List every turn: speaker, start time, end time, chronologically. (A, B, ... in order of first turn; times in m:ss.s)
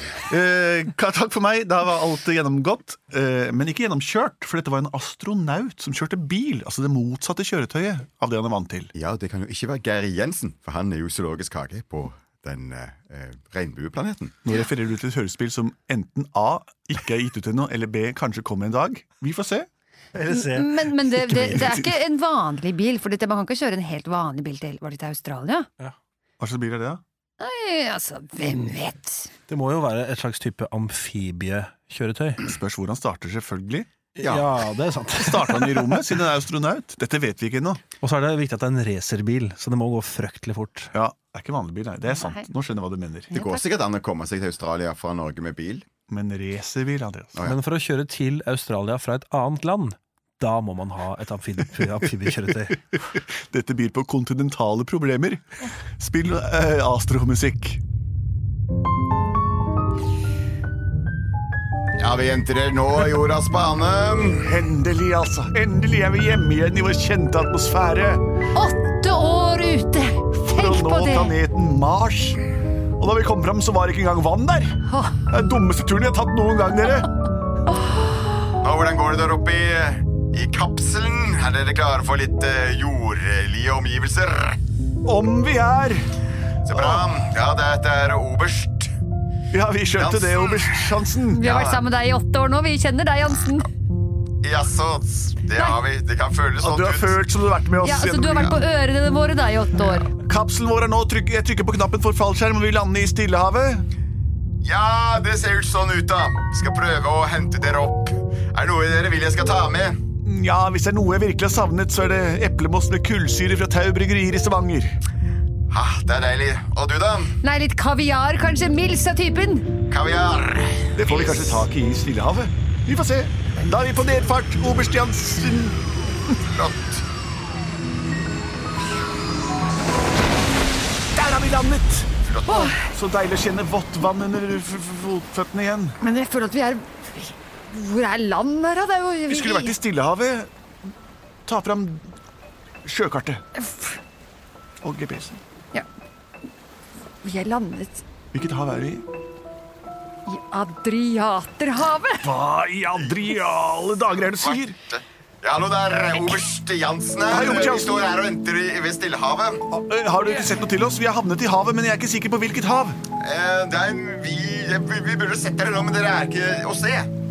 0:00.2-0:08.9 A
0:08.9-0:14.3 B
0:14.4-0:19.7 A
0:20.1-0:21.8 C
0:20.3-0:25.7 D
0:26.4-0:27.0 A
0:27.4-0:29.3 D
0:29.5-0:32.4 C
0:32.4-0:33.9 A
0:34.2-0:36.0 C
0:34.2-0:34.5 B
0:35.2-0:37.8 A
0:38.0-0:40.9 C
0:40.9-0:43.3 A
0:42.1-0:42.5 D
0:43.3-0:43.6 D
0:43.3-0:45.8 B
0:46.1-0:47.5 A
0:47.4-0:52.8 C
0:52.9-0:57.8 A
1:02.0-1:04.5 B
1:04.4-1:08.2 A
1:08.5-1:11.3 D
1:10.3-1:12.4 A
1:13.0-1:17.1 A
1:14.9-1:15.2 D
1:18.6-1:24.6 B
1:25.0-1:26.1 A
1:26.7-1:27.2 A
1:26.7-1:28.9 B
1:29.5-1:31.4 A
1:30.0-1:31.8 B
1:31.3-1:33.7 D
1:34.4-1:37.2 B
1:36.6-1:38.6 A
1:37.8-1:40.2 D
1:40.2-1:43.9 A
1:44.6-1:50.0 B
1:50.2-1:55.0 A
1:55.7-1:57.3 B
1:57.4-1:59.7 D
1:59.9-2:01.6 B
2:00.9-2:05.8 A
2:06.4-2:07.0 B
2:11.1-2:16.0 A
2:12.2-2:12.7 B
2:12.5-2:12.8 D
2:16.0-2:19.7 D
2:19.3-2:20.5 A
2:21.5-2:22.2 A
2:22.8-2:23.4 A
2:23.6-2:24.0 D
2:24.8-2:25.4 A
2:27.2-2:28.0 D
2:28.3-2:29.0 A
2:30.2-2:32.3 D
2:32.2-2:34.8 A
2:34.4-2:39.6 B
2:37.3-2:38.1 A
2:39.7-2:43.0 A
2:43.2-2:47.1 B